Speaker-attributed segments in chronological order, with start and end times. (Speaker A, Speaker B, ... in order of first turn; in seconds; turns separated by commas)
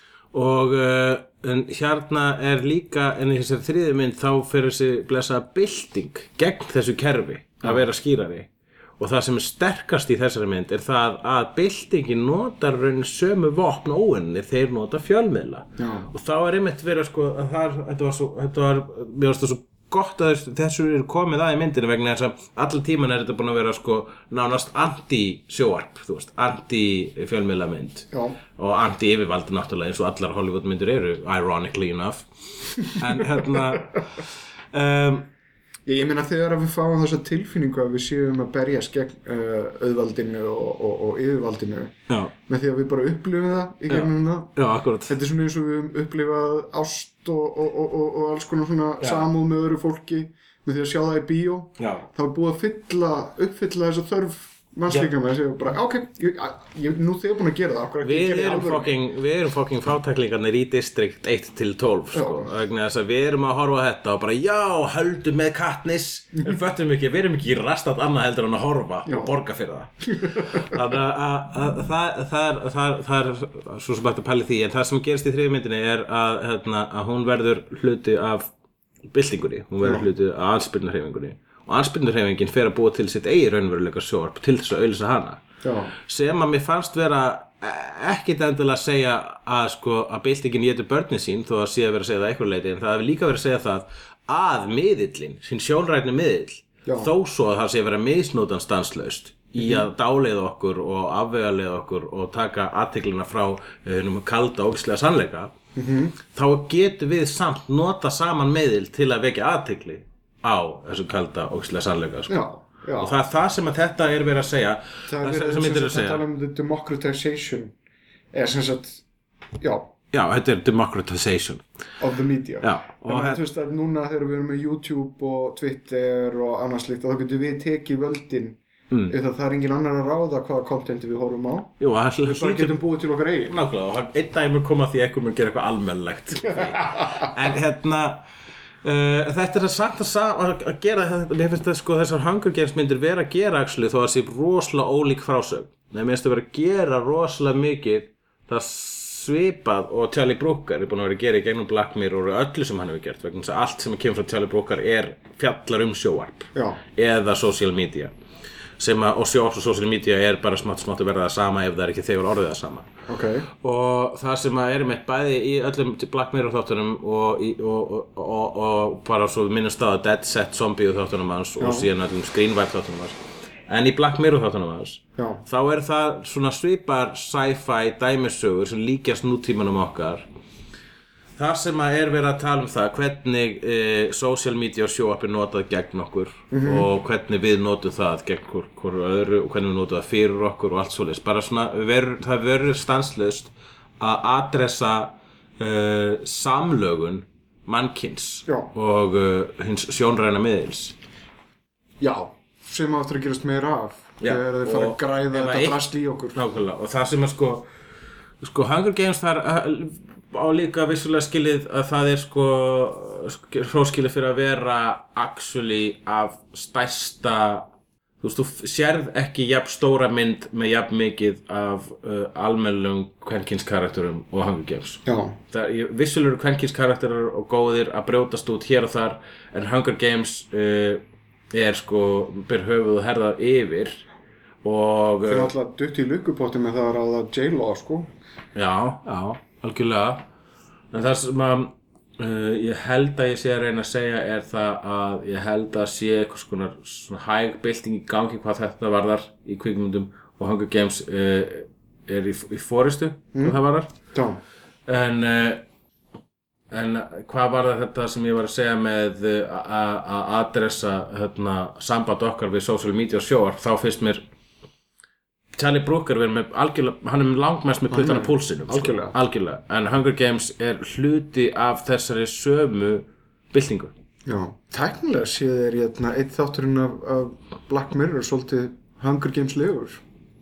Speaker A: 0.3-35.3, Speaker B: 15.8-16.1, Speaker B: 28.1-28.4, Speaker B: 33.2-33.8, Speaker B: 35.9-44.5, Speaker A: 43.9-45.2, Speaker B: 45.1-59.0, Speaker A: 51.8-52.1, Speaker A: 58.0-78.5, Speaker B: 62.1-62.5, Speaker B: 69.0-69.3, Speaker B: 70.1-70.8, Speaker A: 79.1-85.4, Speaker B: 85.6-85.9, Speaker A: 86.0-105.5, Speaker B: 96.8-97.1, Speaker B: 99.6-99.9, Speaker B: 105.7-106.2, Speaker A: 106.2-112.4, Speaker B: 112.3-113.2, Speaker A: 113.0-116.2, Speaker B: 115.0-117.7, Speaker B: 118.3-119.0, Speaker B: 119.6-119.9, Speaker A: 120.1-121.6, Speaker B: 122.0-133.6, Speaker A: 122.6-123.4, Speaker A: 128.9-129.2, Speaker A: 131.8-132.8, Speaker A: 133.5-138.2, Speaker B: 136.5-137.3, Speaker A: 138.8-158.1, Speaker B: 156.5-156.8, Speaker A: 158.8-162.9, Speaker B: 163.1-163.5, Speaker A: 163.6-180.2, Speaker B: 171.6-171.9, Speaker B: 175.2-175.4, Speaker A: 181.4-200.9, Speaker B: 186.5-186.9, Speaker B: 202.0-206.4, Speaker A: 204.2-205.8, Speaker A: 206.3-207.7, Speaker A: 208.4-217.7, Speaker A: 218.2-234.0, Speaker B: 225.1-225.4, Speaker A: 234.6-235.5, Speaker B: 235.2-238.1, Speaker A: 238.5-240.3, Speaker A: 240.9-253.9, Speaker B: 254.1-254.4, Speaker A: 254.9-255.6, Speaker A: 256.7-264.2, Speaker A: 265.6-273.9, Speaker B: 267.9-269.1, Speaker B: 274.2-280.0